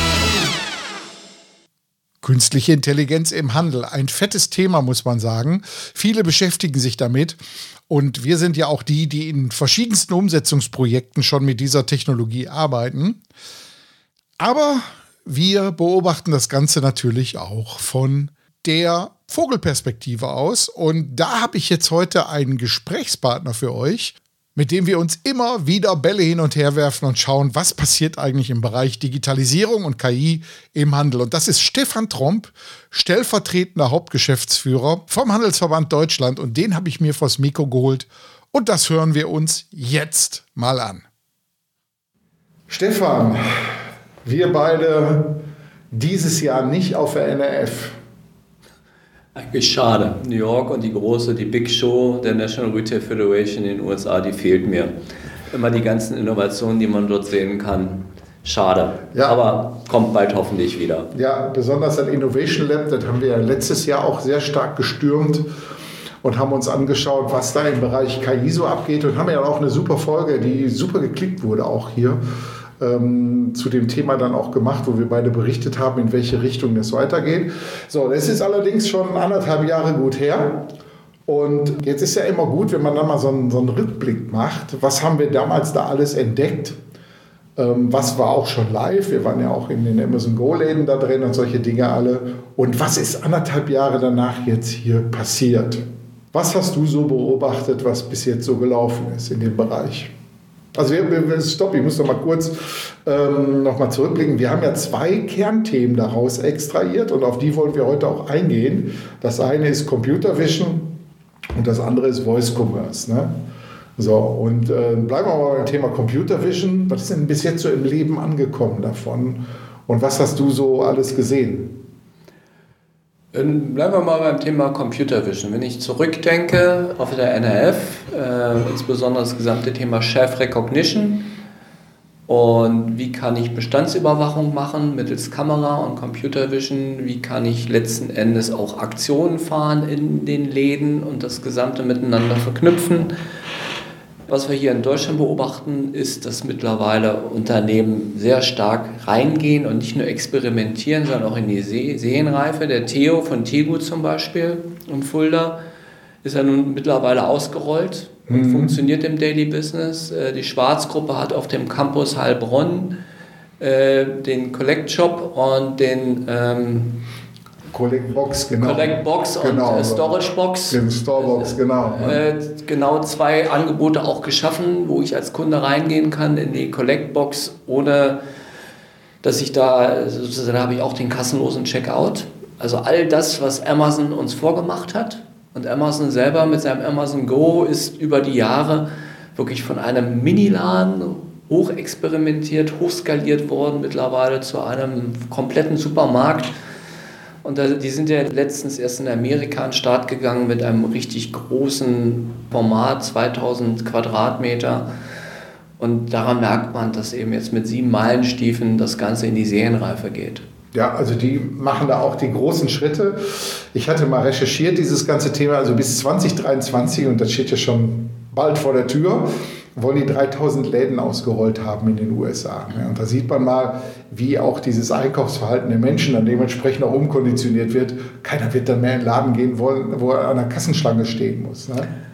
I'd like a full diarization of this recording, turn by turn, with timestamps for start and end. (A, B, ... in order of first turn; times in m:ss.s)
0:02.2-0:13.2 A
0:14.4-0:41.1 A
0:42.7-0:48.0 A
0:49.4-0:54.9 B
0:55.5-1:01.1 B
0:59.1-0:59.4 A
1:01.1-1:05.5 A
1:06.2-1:12.2 A
1:12.8-1:20.7 A
1:21.3-1:26.8 A
1:27.6-1:40.1 A
1:40.7-1:51.0 A
1:51.6-1:53.4 A
1:54.0-2:01.8 A
2:03.3-2:11.3 B
2:12.3-2:23.1 B
2:24.3-2:35.6 B
2:36.2-2:42.9 B
2:38.3-2:38.7 A
2:43.6-2:47.0 B
2:47.7-2:50.1 A
2:48.6-2:58.2 B
2:50.7-2:52.2 A
2:59.2-3:16.5 B
3:17.4-3:24.9 B
3:25.8-3:30.4 B
3:30.7-3:51.9 A